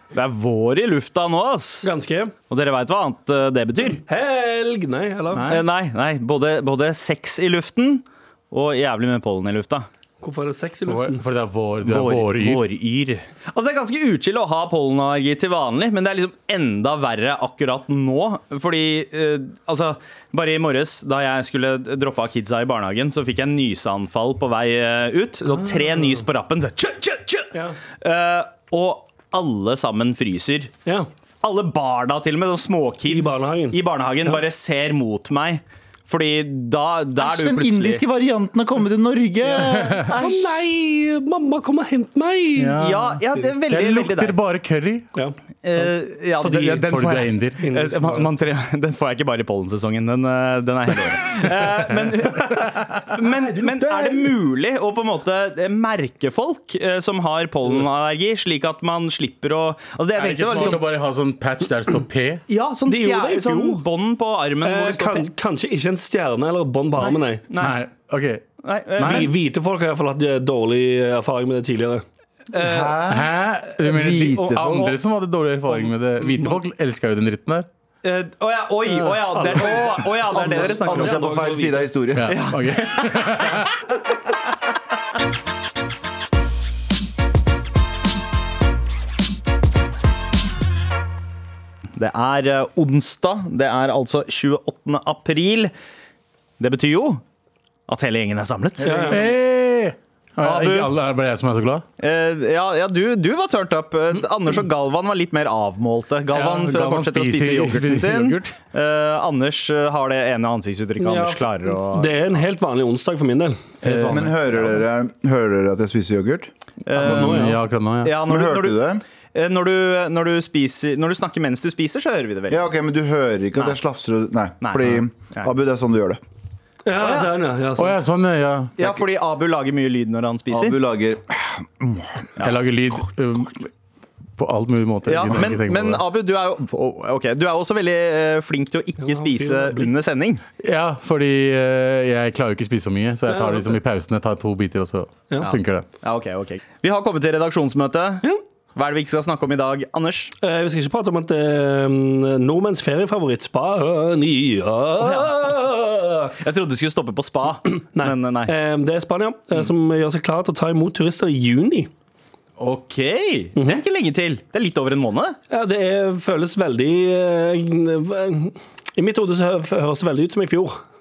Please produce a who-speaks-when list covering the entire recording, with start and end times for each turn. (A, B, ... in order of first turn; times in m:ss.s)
0:00.1-0:01.9 A
0:01.8-0:02.3 B
0:02.5-0:04.0 A
0:04.1-0:05.4 B
0:05.3-0:05.6 C
0:05.5-0:09.9 A
0:10.2-0:11.2 B
0:10.9-0:12.6 C
0:11.8-0:30.7 A
0:31.4-0:38.0 A
0:33.1-0:34.4 B
0:37.2-0:40.6 D
0:39.6-0:42.8 B
0:39.6-0:40.1 C
0:42.6-0:45.1 C
0:42.8-0:44.4 A
0:45.1-0:47.0 B
0:45.6-1:00.9 A
0:46.4-0:47.6 C
0:47.6-0:48.3 B
0:52.2-0:53.2 C
0:53.6-0:54.3 B
1:00.2-1:02.4 C
1:02.5-1:05.3 A
1:02.9-1:03.8 B
1:04.6-1:07.4 B
1:07.5-1:07.8 A
1:07.6-1:08.4 C
1:08.6-1:09.3 A
1:09.0-1:09.3 C
1:09.0-1:12.0 B
1:12.5-1:13.0 A
1:12.5-1:14.9 D
1:13.1-1:17.7 C
1:14.1-1:15.0 A
1:18.0-1:21.3 A
1:19.0-1:21.9 B
1:20.1-1:22.4 D
1:22.1-1:23.9 C
1:22.2-1:23.6 A
1:32.0-1:35.7 A
1:36.6-1:37.2 A
1:37.9-1:39.3 A
1:38.8-1:39.2 B
1:39.1-1:41.8 C
1:40.4-1:40.9 A
1:42.0-1:52.4 A
1:46.3-1:48.4 C
1:51.0-1:53.7 B
1:53.8-1:54.3 A
1:53.8-1:54.3 C
1:54.1-1:56.5 D
1:56.8-2:02.6 A
1:56.9-1:58.2 C
1:57.0-1:57.6 B
1:58.2-1:59.0 D
2:02.5-2:06.2 D
2:04.6-2:05.5 A
2:06.8-2:08.0 B
2:07.0-2:07.3 A
2:07.7-2:08.7 C
2:08.8-2:10.8 A
2:10.5-2:12.4 D
2:12.4-2:13.7 C
2:14.4-2:16.0 C
2:15.1-2:20.4 A
2:19.0-2:19.9 B
2:20.6-2:25.9 C
2:23.3-2:23.8 B
2:25.4-2:28.2 A
2:28.8-2:30.3 A
2:30.4-2:36.4 B
2:35.0-2:35.5 A
2:36.4-2:38.5 A
2:37.9-2:41.9 B
2:42.6-2:45.4 A
2:45.5-2:50.8 B